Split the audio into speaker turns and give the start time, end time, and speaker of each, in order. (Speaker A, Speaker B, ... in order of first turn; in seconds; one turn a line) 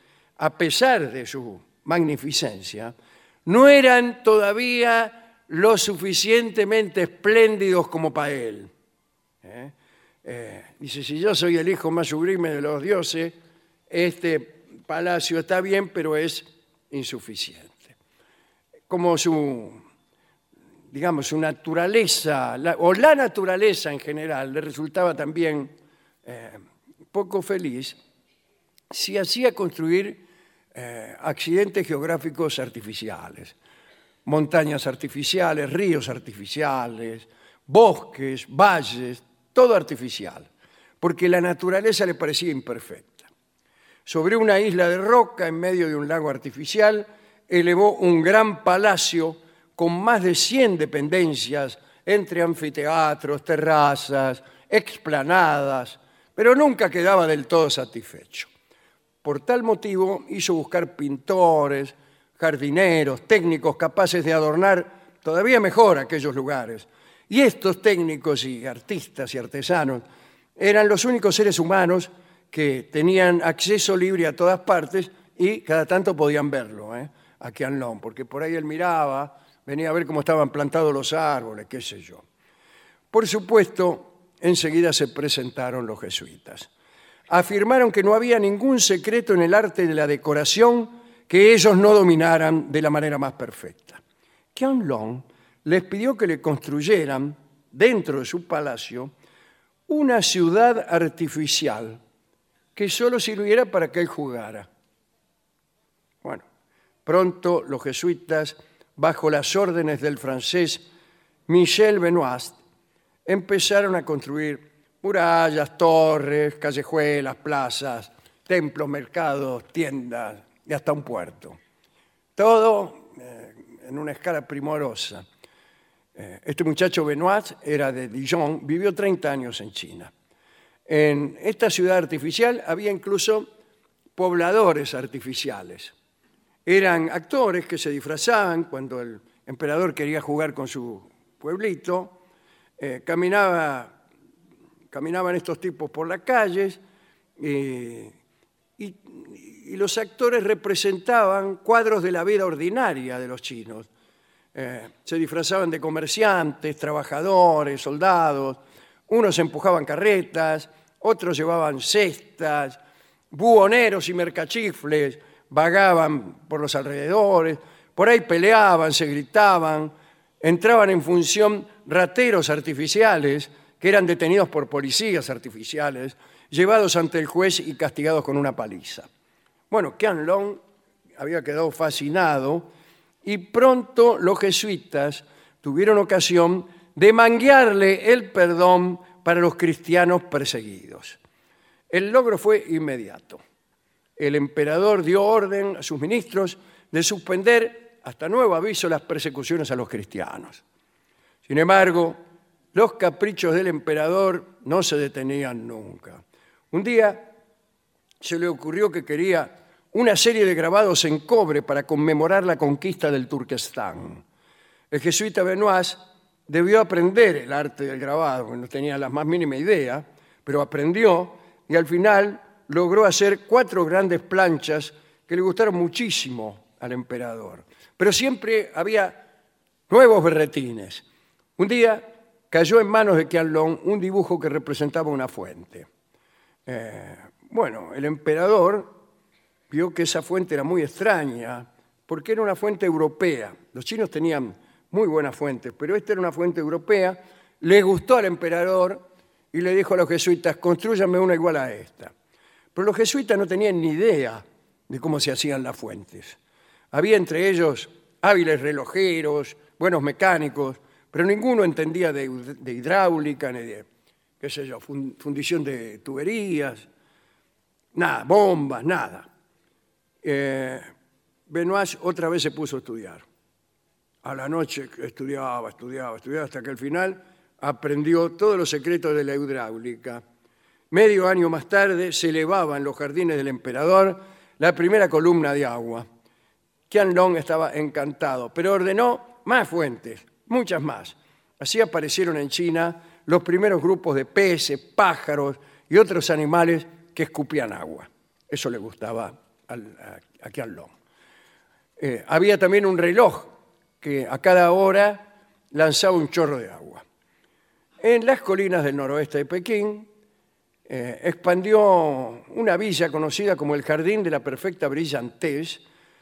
Speaker A: 0.4-2.9
Speaker A: 3.5-8.7
Speaker A: 9.4-9.7
Speaker A: 10.2-13.4
Speaker A: 13.9-18.0
Speaker A: 18.9-19.8
Speaker A: 20.9-28.0
Speaker A: 28.9-33.6
Speaker A: 34.2-40.5
Speaker A: 41.0-43.3
Speaker A: 44.1-58.5
Speaker A: 59.2-70.0
Speaker A: 70.6-82.2
Speaker A: 83.1-86.7
Speaker A: 87.3-94.0
Speaker A: 94.5-99.1
Speaker A: 99.9-102.0
Speaker A: 102.8-104.7
Speaker A: 107.0-110.9
Speaker A: 111.5-112.6
Speaker A: 113.2-121.6
Speaker A: 122.4-125.2
Speaker A: 126.2-130.1
Speaker A: 130.9-133.5
Speaker A: 134.2-135.9
Speaker A: 136.7-142.2
Speaker A: 142.8-143.9
Speaker A: 144.9-146.8
Speaker A: 147.4-148.2
Speaker A: 148.8-153.9
Speaker A: 154.6-162.8
Speaker A: 163.3-179.1
Speaker A: 179.7-180.6
Speaker A: 181.2-182.7
Speaker A: 183.2-191.2
Speaker A: 191.9-193.4
Speaker A: 194.2-200.6
Speaker A: 201.5-202.2
Speaker A: 202.7-207.3
Speaker A: 208.2-214.2
Speaker A: 214.9-229.3
Speaker A: 229.9-231.0
Speaker A: 231.6-235.9
Speaker A: 236.7-239.0
Speaker A: 239.7-252.1
Speaker A: 252.8-256.4
Speaker A: 256.9-263.9
Speaker A: 264.4-266.9
Speaker A: 267.9-269.3
Speaker A: 270.2-270.8
Speaker A: 271.5-273.2
Speaker A: 274.2-280.2
Speaker A: 280.9-286.1
Speaker A: 286.9-300.9
Speaker A: 302.0-307.0
Speaker A: 308.0-310.1
Speaker A: 310.9-315.8